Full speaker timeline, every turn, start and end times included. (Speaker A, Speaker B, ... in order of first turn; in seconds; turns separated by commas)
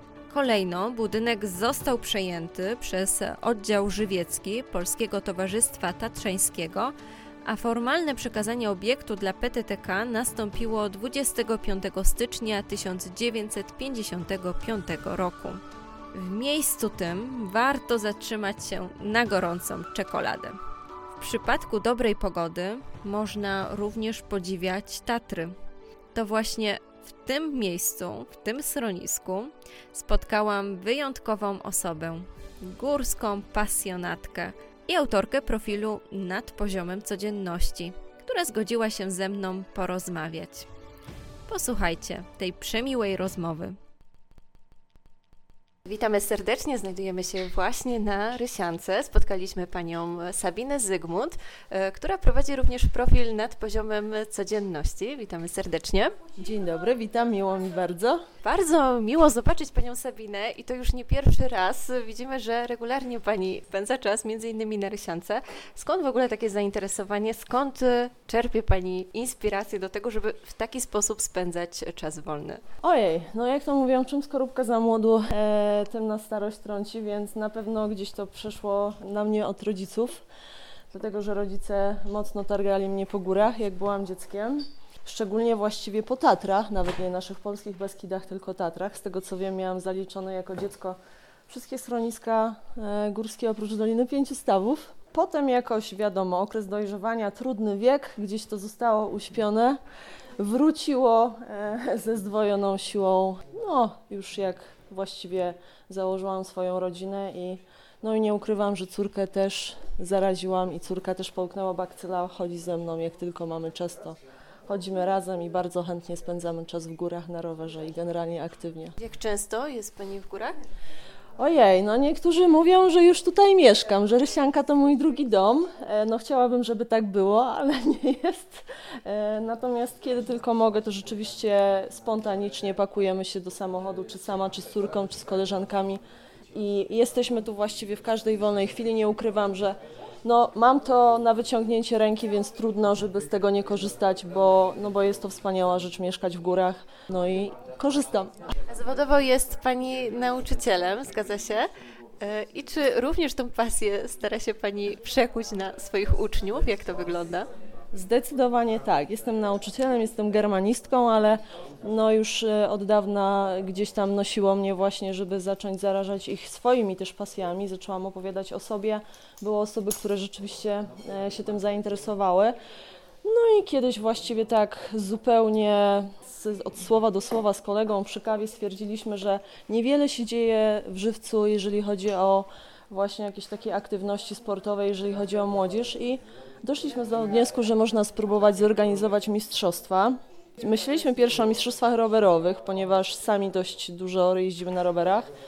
Speaker A: 0.3-6.9, Speaker A: 7.4-15.6, Speaker A: 16.1-20.6, Speaker A: 21.2-25.5, Speaker A: 26.1-40.7, Speaker A: 41.5-43.8, Speaker A: 45.8-56.2, Speaker B: 56.4-58.2, Speaker A: 58.4-72.6, Speaker B: 72.8-80.2, Speaker B: 80.9-91.0, Speaker B: 91.5-99.8, Speaker B: 100.4-114.2, Speaker B: 114.7-119.0, Speaker A: 119.0-120.6, Speaker B: 121.4-136.0, Speaker B: 136.5-148.3, Speaker A: 148.7-151.7, Speaker A: 152.2-157.5, Speaker B: 157.9-172.5, Speaker B: 173.2-195.3